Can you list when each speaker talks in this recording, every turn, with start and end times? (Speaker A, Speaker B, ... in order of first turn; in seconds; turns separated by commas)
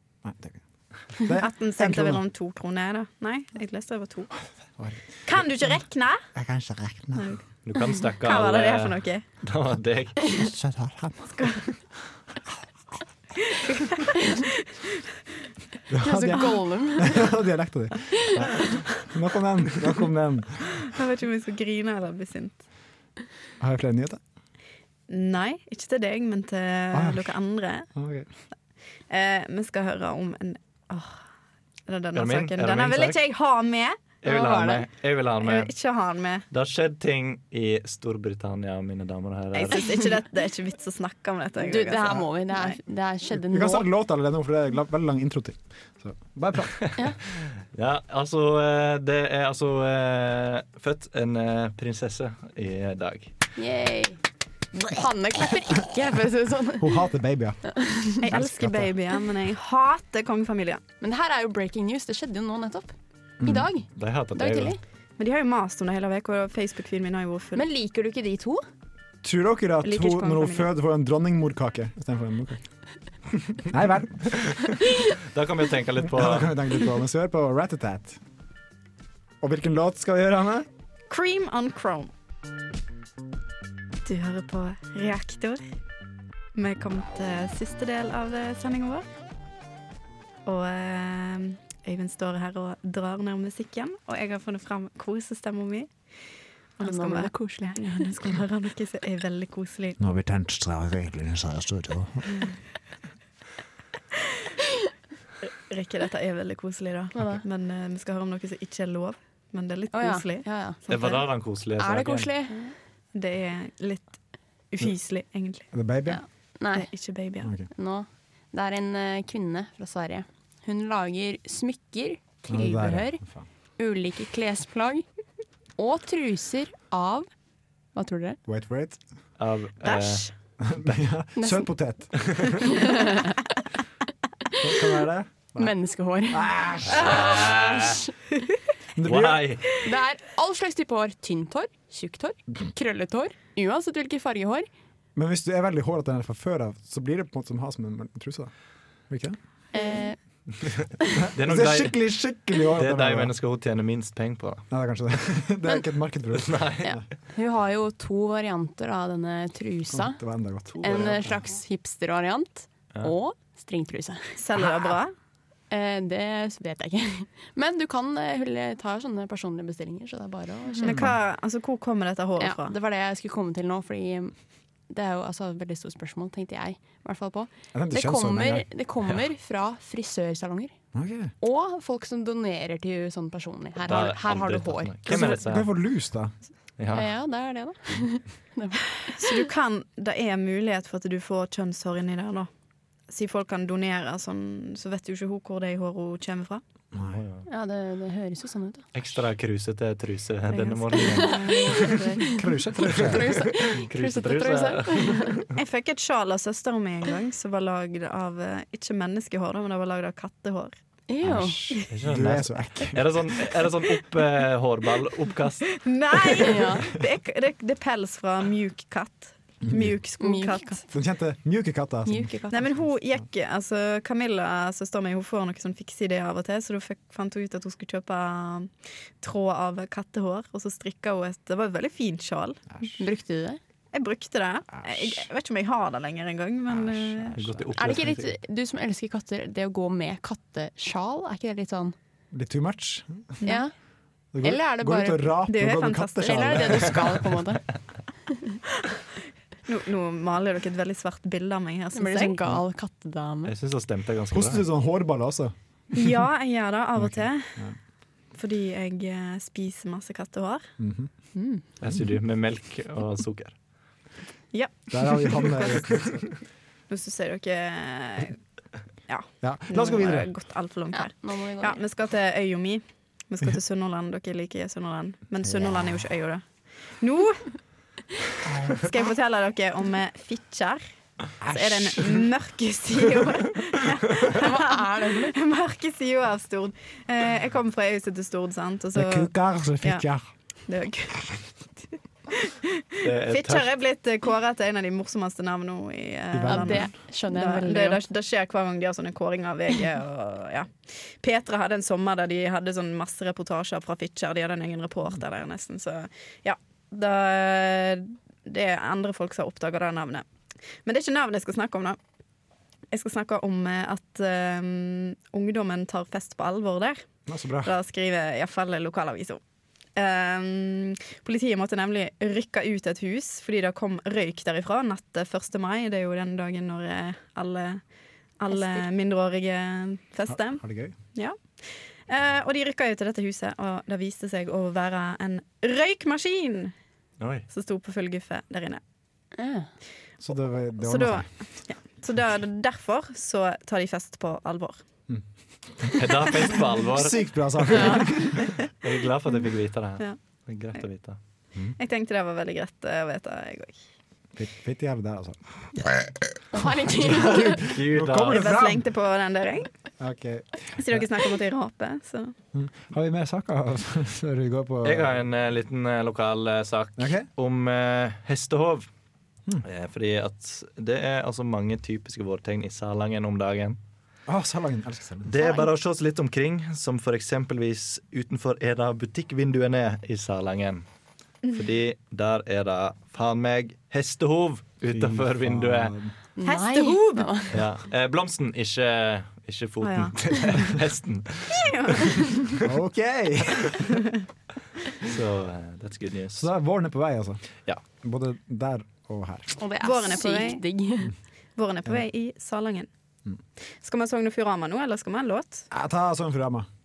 Speaker A: 0.2-2.2, Speaker B: 1.4-4.3, Speaker A: 4.8-5.4, Speaker B: 5.2-6.2, Speaker A: 6.3-7.3, Speaker B: 7.2-7.4, Speaker C: 7.7-10.4, Speaker B: 8.2-9.2, Speaker A: 10.4-11.3, Speaker B: 11.3-11.6, Speaker B: 13.5-14.4, Speaker A: 15.9-20.9, Speaker D: 16.0-17.2, Speaker B: 20.8-22.6, Speaker A: 23.6-24.2, Speaker B: 25.1-27.9, Speaker A: 26.9-27.4, Speaker A: 27.9-28.3, Speaker B: 29.1-31.2, Speaker B: 31.9-34.2, Speaker C: 32.1-33.2, Speaker C: 34.2-35.7, Speaker D: 34.2-34.8, Speaker B: 35.4-36.4, Speaker C: 36.5-40.0, Speaker B: 39.5-42.8, Speaker D: 41.6-43.8, Speaker A: 43.5-47.0, Speaker C: 47.7-53.3, Speaker D: 53.6-54.2, Speaker D: 54.7-56.9, Speaker A: 56.8-58.9, Speaker D: 57.8-58.2, Speaker B: 58.2-60.8, Speaker D: 61.0-64.8, Speaker A: 63.4-63.7, Speaker C: 64.0-64.7, Speaker B: 65.2-67.6, Speaker D: 67.5-68.6, Speaker A: 69.2-72.6, Speaker B: 69.8-70.7, Speaker A: 73.6-74.5, Speaker C: 74.5-76.5, Speaker A: 76.0-78.2, Speaker A: 79.4-80.7, Speaker B: 81.1-82.1, Speaker B: 84.0-85.6, Speaker B: 86.5-89.0, Speaker B: 90.5-95.9, Speaker B: 96.8-100.0, Speaker D: 96.8-98.2, Speaker A: 100.0-102.5, Speaker B: 105.5-111.2, Speaker D: 107.1-107.4, Speaker D: 109.9-110.8, Speaker C: 110.9-112.3, Speaker D: 111.8-112.7, Speaker B: 113.1-114.1, Speaker B: 114.7-115.7, Speaker A: 115.7-116.2, Speaker D: 116.1-116.9, Speaker B: 116.7-117.5, Speaker A: 117.4-117.7, Speaker D: 117.7-123.2, Speaker A: 122.5-123.5, Speaker D: 123.8-125.0, Speaker D: 125.8-127.3, Speaker D: 127.9-128.4, Speaker A: 128.5-129.0, Speaker C: 129.4-130.2, Speaker B: 129.8-130.3, Speaker A: 130.6-132.6, Speaker D: 131.4-131.7, Speaker C: 132.2-132.5, Speaker D: 132.7-133.4, Speaker A: 134.6-135.7, Speaker D: 135.6-138.1, Speaker A: 136.3-137.4, Speaker C: 136.9-138.0, Speaker A: 138.9-139.5, Speaker C: 139.0-139.7, Speaker D: 139.8-144.7, Speaker A: 145.2-148.5, Speaker A: 149.1-149.4, Speaker D: 149.7-150.2, Speaker A: 151.2-153.3, Speaker C: 151.3-152.0, Speaker C: 152.7-154.6, Speaker A: 154.7-157.0, Speaker C: 156.3-156.9, Speaker D: 156.8-160.2, Speaker A: 159.9-161.2, Speaker C: 160.7-161.3, Speaker D: 160.8-164.3, Speaker B: 164.4-165.1, Speaker D: 165.7-171.0, Speaker B: 170.8-172.7, Speaker A: 170.8-171.1, Speaker D: 172.4-174.3, Speaker D: 174.9-180.7, Speaker A: 177.7-178.7, Speaker A: 180.9-181.3, Speaker D: 181.4-185.4, Speaker C: 183.8-185.7, Speaker A: 185.1-186.3, Speaker C: 186.8-187.1, Speaker D: 186.9-189.4, Speaker B: 189.2-192.5, Speaker B: 193.1-196.6, Speaker A: 196.9-197.2, Speaker C: 197.1-197.4, Speaker D: 197.5-198.8, Speaker C: 198.9-202.0, Speaker B: 200.5-202.4, Speaker A: 202.4-203.6, Speaker C: 203.0-205.5, Speaker D: 203.0-205.3, Speaker B: 205.5-210.7, Speaker D: 211.1-211.8, Speaker A: 211.2-213.2, Speaker C: 211.9-215.7, Speaker B: 215.8-220.8, Speaker D: 216.4-216.9, Speaker A: 219.6-219.9, Speaker D: 220.2-220.9, Speaker A: 220.9-222.4, Speaker D: 222.1-222.7, Speaker B: 222.5-232.6, Speaker D: 233.0-233.6, Speaker B: 233.9-237.4, Speaker A: 234.8-235.2, Speaker A: 236.8-237.9, Speaker C: 237.3-238.3, Speaker D: 237.8-241.9, Speaker A: 242.3-243.4, Speaker D: 243.4-243.7, Speaker A: 244.3-247.2, Speaker D: 244.4-245.4, Speaker B: 245.5-246.9, Speaker D: 246.2-247.6, Speaker B: 249.7-252.4, Speaker D: 251.9-253.5, Speaker C: 253.4-254.6, Speaker A: 254.3-256.1, Speaker B: 255.9-257.6, Speaker A: 257.0-257.8, Speaker B: 258.3-260.6, Speaker A: 260.8-261.1, Speaker D: 261.3-261.6, Speaker C: 261.8-263.6, Speaker B: 264.5-265.8, Speaker A: 264.9-266.2, Speaker B: 266.9-268.4, Speaker B: 269.1-276.4, Speaker A: 269.4-270.3, Speaker D: 270.9-271.8, Speaker A: 275.5-275.9, Speaker B: 277.0-277.5, Speaker B: 278.7-280.8, Speaker A: 281.4-282.1, Speaker B: 281.4-290.0, Speaker D: 284.3-285.3, Speaker A: 288.9-290.3, Speaker B: 290.6-291.5, Speaker B: 292.3-310.2, Speaker C: 293.0-293.7, Speaker A: 296.3-296.9, Speaker D: 296.4-298.0, Speaker B: 310.8-312.0, Speaker B: 312.9-317.1, Speaker A: 317.3-317.7, Speaker B: 317.6-319.4, Speaker B: 319.9-327.8, Speaker B: 328.4-336.7, Speaker D: 328.5-328.8, Speaker A: 330.3-330.9, Speaker C: 337.2-337.4, Speaker B: 337.5-338.8, Speaker D: 339.4-339.7, Speaker A: 340.2-341.3, Speaker B: 340.8-344.8, Speaker A: 345.1-346.1, Speaker C: 346.0-347.9, Speaker A: 346.8-348.4, Speaker D: 347.8-348.0, Speaker C: 348.8-351.2, Speaker B: 351.8-353.8, Speaker A: 354.3-356.0, Speaker D: 356.5-357.6, Speaker A: 356.9-358.9, Speaker C: 357.7-358.4, Speaker B: 358.3-359.7, Speaker A: 360.0-361.1, Speaker B: 360.8-362.3, Speaker A: 362.5-365.1, Speaker C: 364.8-368.9, Speaker A: 367.0-367.3, Speaker C: 369.6-373.8, Speaker A: 374.3-375.3, Speaker C: 375.2-380.8, Speaker B: 375.4-375.6, Speaker C: 381.5-385.9, Speaker A: 384.9-386.1, Speaker D: 386.4-387.6, Speaker B: 386.4-387.3, Speaker C: 387.5-392.1, Speaker B: 389.8-390.1, Speaker B: 391.5-392.3, Speaker A: 392.6-393.9, Speaker C: 395.0-396.4, Speaker A: 396.3-397.4, Speaker A: 398.0-399.5, Speaker D: 399.6-401.1, Speaker B: 399.8-400.7, Speaker B: 401.6-402.9, Speaker B: 403.8-405.7, Speaker A: 405.7-406.7